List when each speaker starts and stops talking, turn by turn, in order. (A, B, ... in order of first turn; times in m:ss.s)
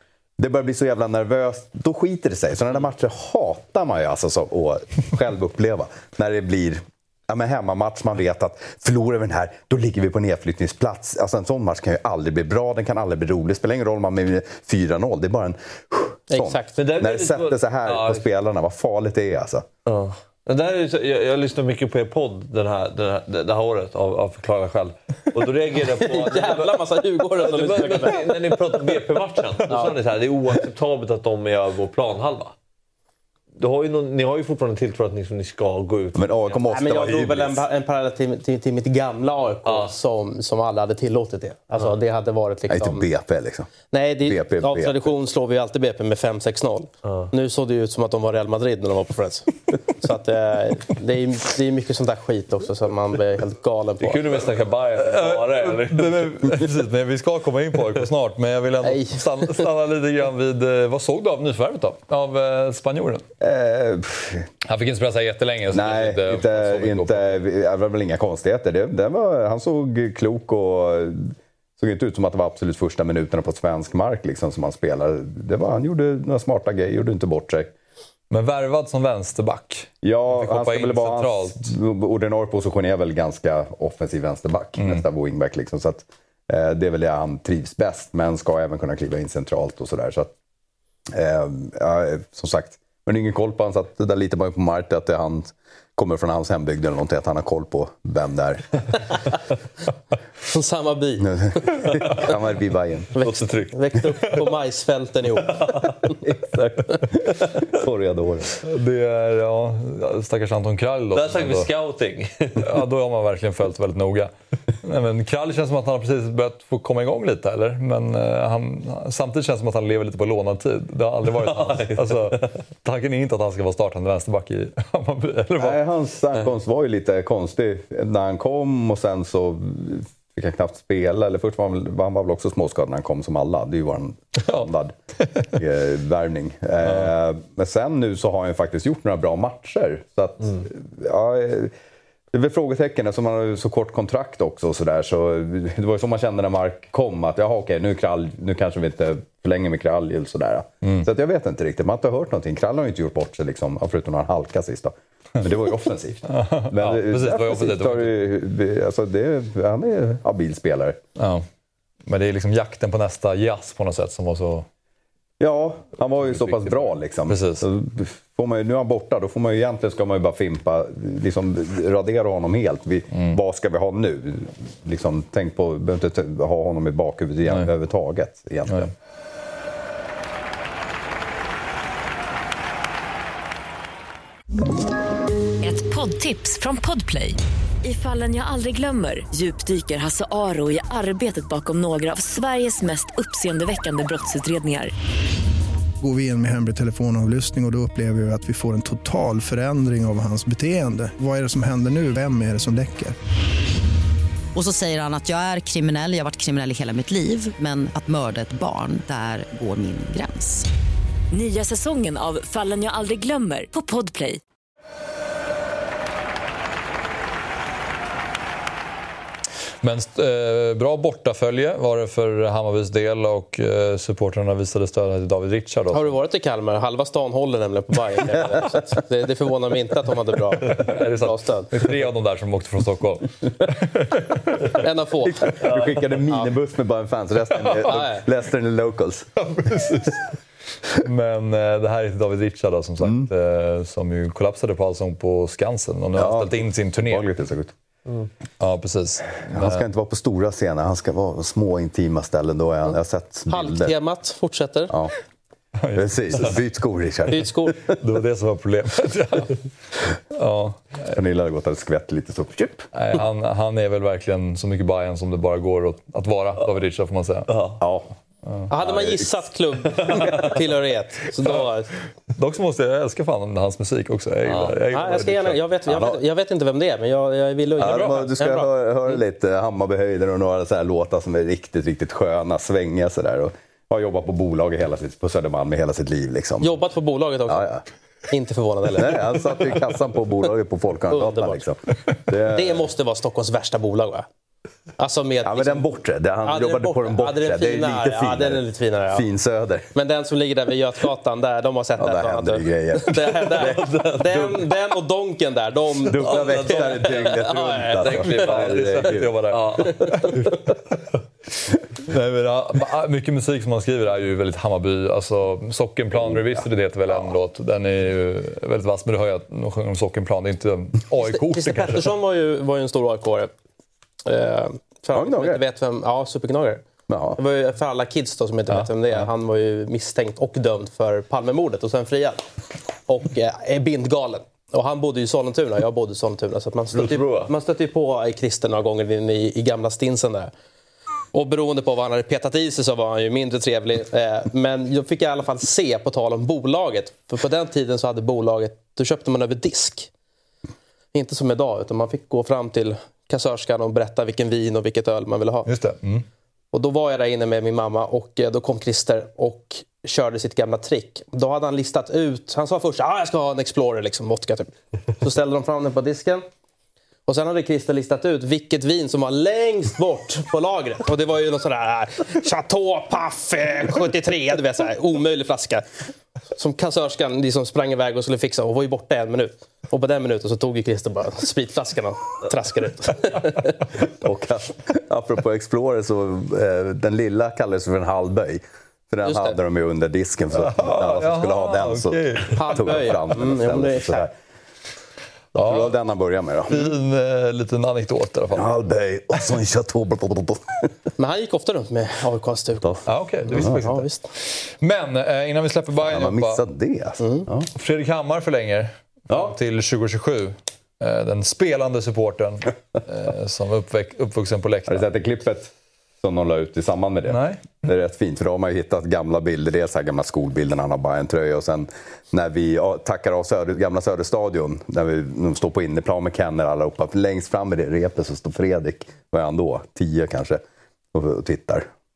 0:00.4-0:19.7 A
0:16.3-0:16.8 B
0:16.8-0:18.2 C
0:19.9-0:26.8 C
0:26.0-0:28.4 B
0:27.4-0:32.5 C
0:29.7-0:30.0 B
0:33.6-0:36.6 C
0:36.2-0:37.6 A
0:36.7-0:43.1 B
0:39.7-0:39.9 C
0:42.7-0:43.7 A
0:43.9-0:54.4 B
0:44.2-0:45.1 A
0:54.0-0:56.3 C
0:55.0-1:03.3 D
0:58.8-0:59.2 B
1:03.4-1:04.5 A
1:04.6-1:07.4 D
1:05.7-1:17.7 A
1:18.3-1:21.7 D
1:20.0-1:30.3 A
1:31.1-1:38.6 A
1:40.5-1:42.2 B
1:41.2-1:43.1 A
1:43.2-1:46.2 B
1:43.2-1:43.8 C
1:46.2-1:48.5 A
1:48.6-1:51.7 D
1:51.1-1:52.7 C
1:52.6-1:54.3 D
1:54.8-2:05.8 D
2:01.3-2:02.5 C
2:05.6-2:15.0 A
2:15.2-2:15.6 D
2:15.5-2:21.7 A
2:22.3-2:41.0 A
2:36.3-2:38.1 D
2:41.2-2:41.5 D
2:42.1-2:44.7 D
2:45.4-2:58.9 A
2:46.3-2:47.6 D
3:05.6-3:14.9 E
3:16.0-3:23.2 F
3:24.6-3:30.7 G
3:31.3-3:34.4 E
3:39.8-3:46.2 D
3:45.9-3:51.7 B
3:50.6-3:54.8 D
3:54.7-3:56.5 B
3:55.4-3:59.3 A
3:57.9-3:58.2 B
3:59.4-4:00.3 D
4:00.9-4:07.2 D
4:03.0-4:03.3 A
4:06.2-4:07.7 A
4:08.6-4:09.8 D
4:09.5-4:14.0 A
4:13.5-4:14.9 B
4:15.8-4:16.5 D
4:15.9-4:18.0 A
4:17.3-4:17.8 B
4:17.9-4:19.6 D
4:20.3-4:21.1 D
4:21.1-4:22.9 A
4:22.9-4:27.5 D
4:27.5-4:27.8 C
4:27.8-4:28.1 A
4:28.7-4:31.9 B
4:28.8-4:29.3 A
4:32.3-4:35.6 D
4:34.5-4:34.8 C
4:34.9-4:38.7 B
4:35.9-4:36.2 A
4:37.8-4:46.8 A
4:37.8-4:38.2 D
4:46.6-4:47.7 B
4:47.5-4:47.8 A
4:48.3-4:49.7 B
4:48.9-4:52.8 A
4:51.1-4:51.6 B
4:52.4-4:54.2 B
4:55.0-4:55.9 B
4:55.4-4:59.9 A
4:56.4-4:59.2 B
4:59.9-5:08.5 B
5:02.0-5:04.0 A
5:03.8-5:04.4 C
5:06.0-5:09.4 A
5:06.3-5:07.4 C
5:08.0-5:10.3 C
5:08.2-5:11.0 D
5:12.0-5:22.1 D
5:16.1-5:17.3 A
5:21.2-5:23.5 B
5:24.2-5:26.8 B
5:25.1-5:25.6 A
5:27.1-5:27.4 A
5:27.4-5:32.4 B
5:28.7-5:29.2 D
5:33.1-5:40.5 B
5:36.9-5:37.5 C
5:41.3-5:50.1 B
5:51.1-5:55.7 B
5:55.7-5:56.3 D
5:56.7-6:06.4 B
6:07.3-6:15.9 B
6:16.5-6:23.7 B
6:24.0-6:34.3 A
6:29.2-6:29.6 B
6:30.6-6:33.1 D
6:32.6-6:34.3 B
6:35.5-6:36.9 A
6:35.6-6:35.9 D
6:36.7-6:38.7 D
6:38.5-6:40.9 A
6:41.2-6:44.3 B
6:43.1-6:46.6 D
6:46.0-6:47.7 A
6:47.2-6:47.4 B
6:47.8-6:55.1 D
6:49.3-6:49.6 A
6:54.9-6:55.7 A
6:56.2-7:10.6 A
6:57.3-6:57.8 D
7:11.1-7:11.9 A